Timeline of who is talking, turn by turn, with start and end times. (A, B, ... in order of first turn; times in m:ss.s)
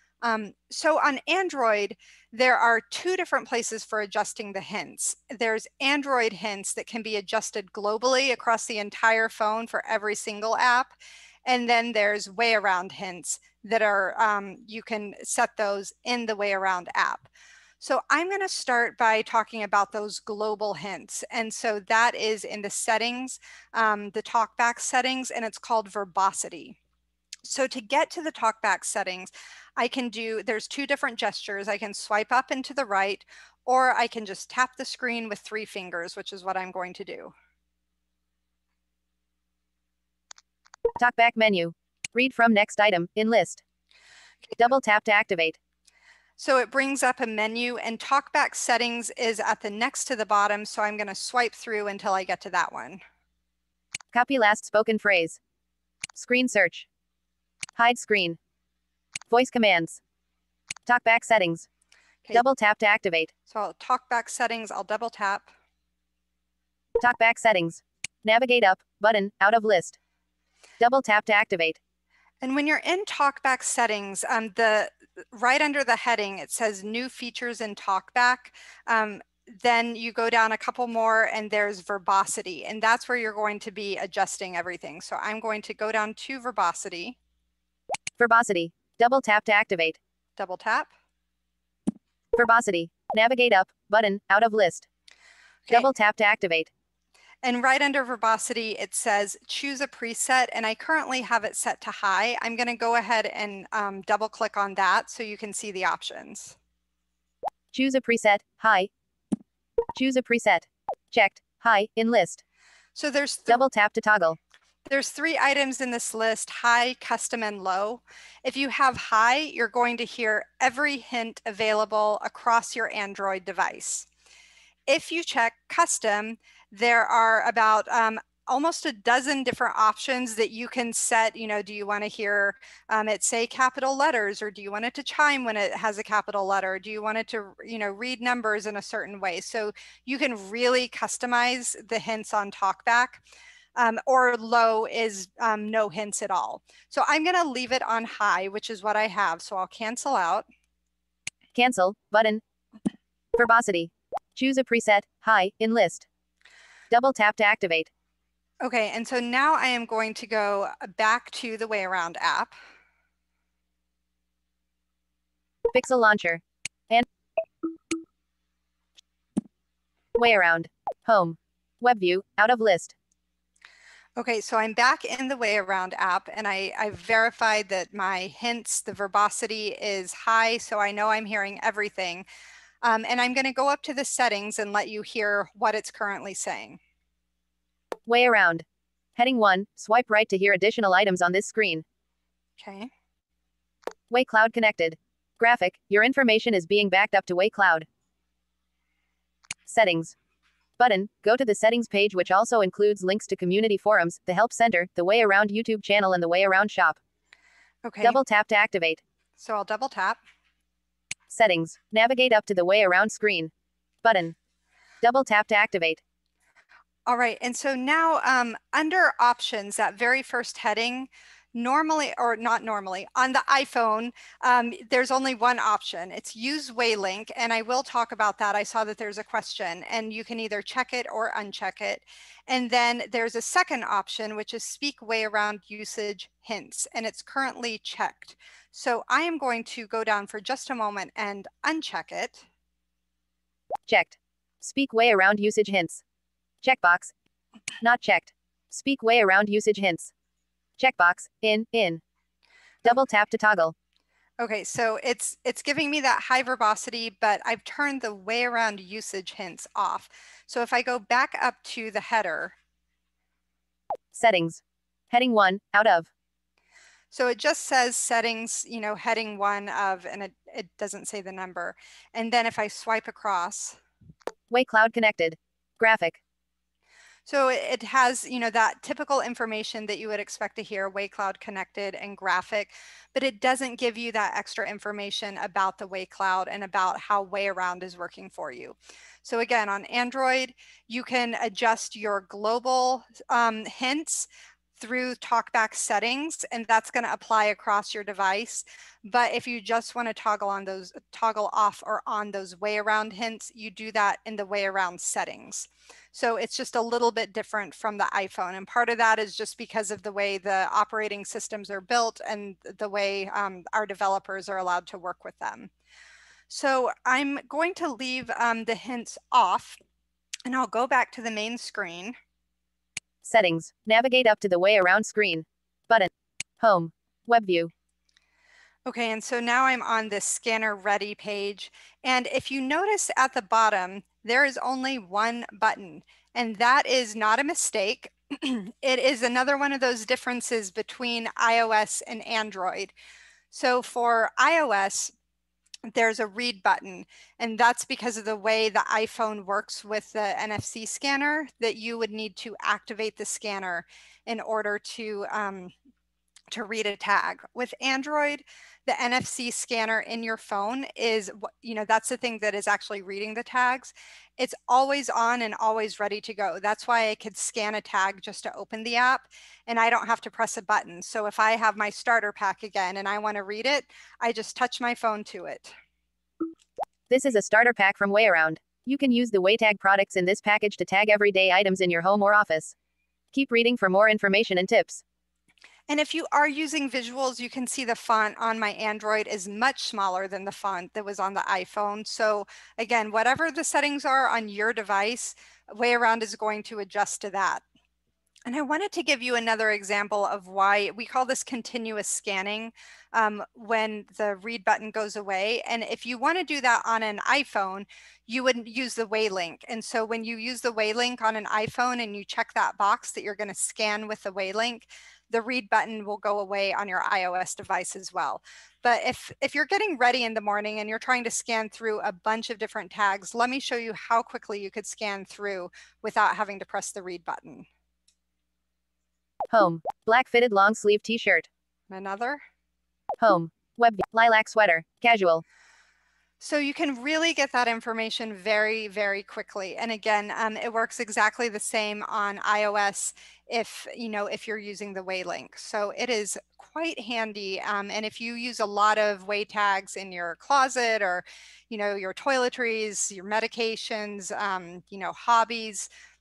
0:00.2-0:10.9 A
0:11.4-0:17.3 A
0:17.8-0:26.8 A
0:27.4-0:37.3 A
0:41.0-0:43.6 B
0:44.5-0:45.6 B
0:46.4-0:53.0 A
0:54.1-0:55.4 B
0:56.1-0:56.9 B
0:57.8-0:58.4 B
0:59.3-1:00.0 B
1:00.9-1:01.6 B
1:02.3-1:03.3 B
1:03.5-1:05.5 A
1:07.0-1:10.0 B
1:10.8-1:11.8 B
1:12.4-1:27.2 A
1:28.2-1:30.0 B
1:30.4-1:30.9 A
1:32.3-1:34.9 B
1:35.7-1:36.7 B
1:37.4-1:46.6 A
1:47.7-1:48.9 B
1:49.9-1:52.4 B
1:53.0-1:53.6 A
1:53.5-1:54.4 B
1:54.8-2:04.1 A
2:04.9-2:23.2 A
2:23.8-2:30.4 A
2:31.5-2:32.4 B
2:33.3-2:36.0 B
2:36.9-2:37.9 B
2:38.6-2:42.6 A
2:45.7-2:47.0 B
2:50.2-2:52.9 B
2:54.2-3:02.2 A
3:02.8-3:06.8 A
3:08.0-3:08.6 B
3:09.2-3:11.8 B
3:12.6-3:12.9 A
3:14.1-3:17.9 B
3:19.7-3:20.1 B
3:20.8-3:27.0 B
3:27.8-3:28.2 A
3:28.0-3:29.0 B
3:29.4-3:30.2 A
3:31.3-3:33.5 B
3:34.0-3:34.3 B
3:35.0-3:36.0 B
3:37.1-4:02.4 A
4:03.9-4:06.0 B
4:06.6-4:07.1 B
4:07.8-4:10.1 B
4:10.8-4:12.0 B
4:12.8-4:13.7 B
4:14.4-4:22.6 A
4:24.1-4:26.1 B
4:27.1-4:33.8 A
4:34.5-4:36.2 B
4:37.2-5:15.7 A
5:16.5-5:19.8 A
5:20.4-5:22.2 A
5:23.2-5:26.1 B
5:26.6-5:27.7 B
5:28.8-5:42.9 A
5:43.5-5:45.1 A
5:45.9-5:55.7 A
5:56.5-6:15.7 A
6:17.1-6:22.7 B
6:23.3-6:25.0 B
6:25.9-6:37.6 A
6:38.4-7:07.7 A
7:09.5-7:11.5 B
7:11.9-7:12.4 A
7:13.2-7:15.4 B
7:16.4-7:35.9 A